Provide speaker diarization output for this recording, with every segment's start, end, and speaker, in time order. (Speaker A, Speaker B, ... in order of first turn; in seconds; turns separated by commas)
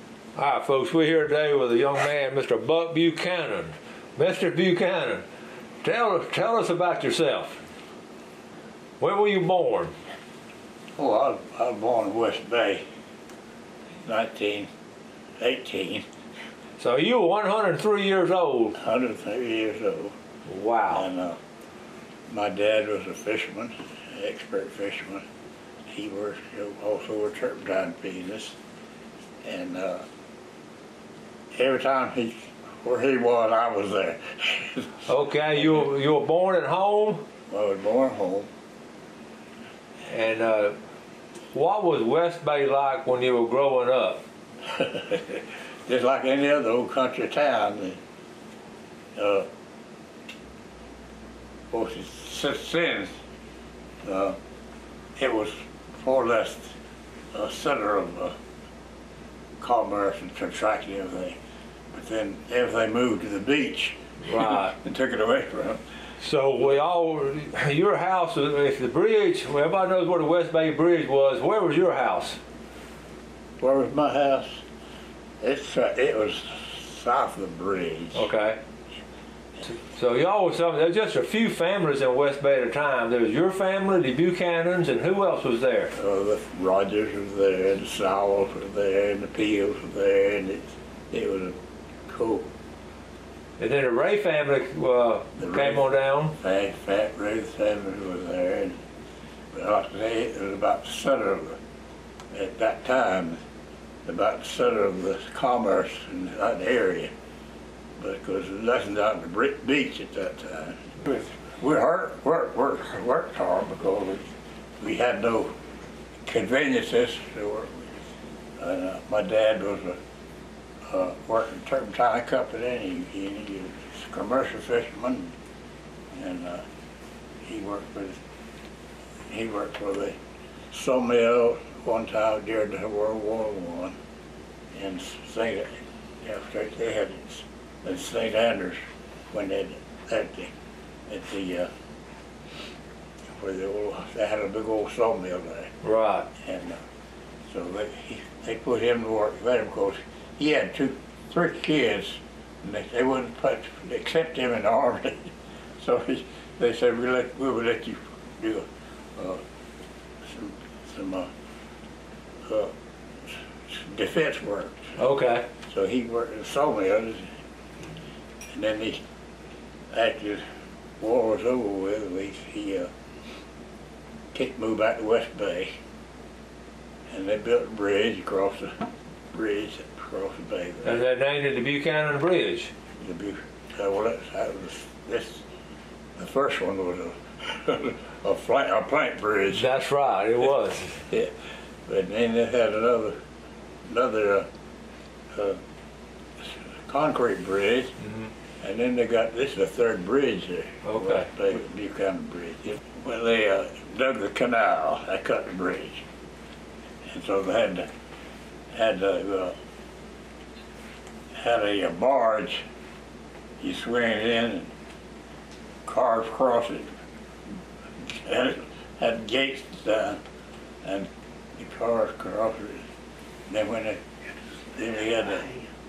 Speaker A: 0.4-5.2, Speaker A: 5.8-7.6, Speaker A: 9.0-9.9, Speaker B: 11.0-12.8, Speaker B: 14.1-14.7, Speaker B: 15.4-16.1, Speaker A: 16.8-18.8, Speaker B: 18.8-20.2, Speaker A: 20.5-21.1, Speaker B: 20.9-21.4, Speaker B: 22.3-25.3, Speaker B: 25.9-28.6, Speaker B: 29.4-30.1, Speaker B: 31.5-35.1, Speaker A: 35.1-37.2, Speaker B: 37.5-38.5, Speaker A: 40.1-40.8, Speaker A: 41.5-44.2, Speaker B: 44.7-48.0, Speaker B: 49.1-49.5, Speaker B: 51.7-53.1, Speaker B: 54.0-54.4, Speaker B: 55.2-56.8, Speaker B: 57.3-58.4, Speaker B: 59.6-61.4, Speaker B: 61.9-65.8, Speaker A: 64.2-64.8, Speaker A: 66.2-72.4, Speaker B: 73.6-74.6, Speaker B: 75.4-78.2, Speaker A: 78.1-78.6, Speaker A: 79.7-85.9, Speaker B: 85.9-92.5, Speaker A: 93.6-96.4, Speaker B: 95.4-95.8, Speaker B: 96.4-98.8, Speaker B: 99.5-101.6, Speaker B: 102.3-103.4, Speaker B: 104.0-107.1, Speaker B: 108.0-114.3, Speaker B: 114.8-115.5, Speaker B: 116.3-118.0, Speaker B: 118.6-120.0, Speaker B: 120.9-125.3, Speaker B: 126.1-126.7, Speaker B: 127.4-128.2, Speaker B: 129.3-130.2, Speaker B: 130.7-134.0, Speaker B: 134.7-138.8, Speaker B: 139.3-140.5, Speaker B: 141.1-141.7, Speaker B: 143.3-145.7, Speaker A: 145.8-146.3, Speaker B: 146.4-146.8, Speaker B: 147.5-159.4, Speaker B: 160.2-161.3, Speaker B: 162.4-162.7, Speaker B: 163.7-164.9, Speaker A: 165.0-165.5, Speaker B: 165.7-167.3, Speaker B: 168.5-169.0, Speaker B: 169.9-170.4, Speaker B: 171.0-172.9, Speaker B: 174.3-175.8, Speaker B: 177.1-181.0, Speaker A: 180.8-182.7, Speaker B: 183.0-185.4, Speaker B: 186.2-189.7, Speaker A: 189.5-191.1, Speaker B: 191.9-193.2, Speaker B: 193.9-194.5, Speaker B: 195.3-195.6, Speaker B: 196.4-198.0, Speaker B: 198.6-206.1, Speaker A: 200.8-201.3, Speaker B: 207.1-207.9, Speaker B: 208.7-209.6, Speaker B: 211.3-212.6, Speaker B: 213.6-214.7, Speaker B: 215.8-216.9, Speaker B: 218.0-220.2, Speaker B: 220.8-222.8, Speaker B: 223.5-224.0, Speaker B: 224.7-225.6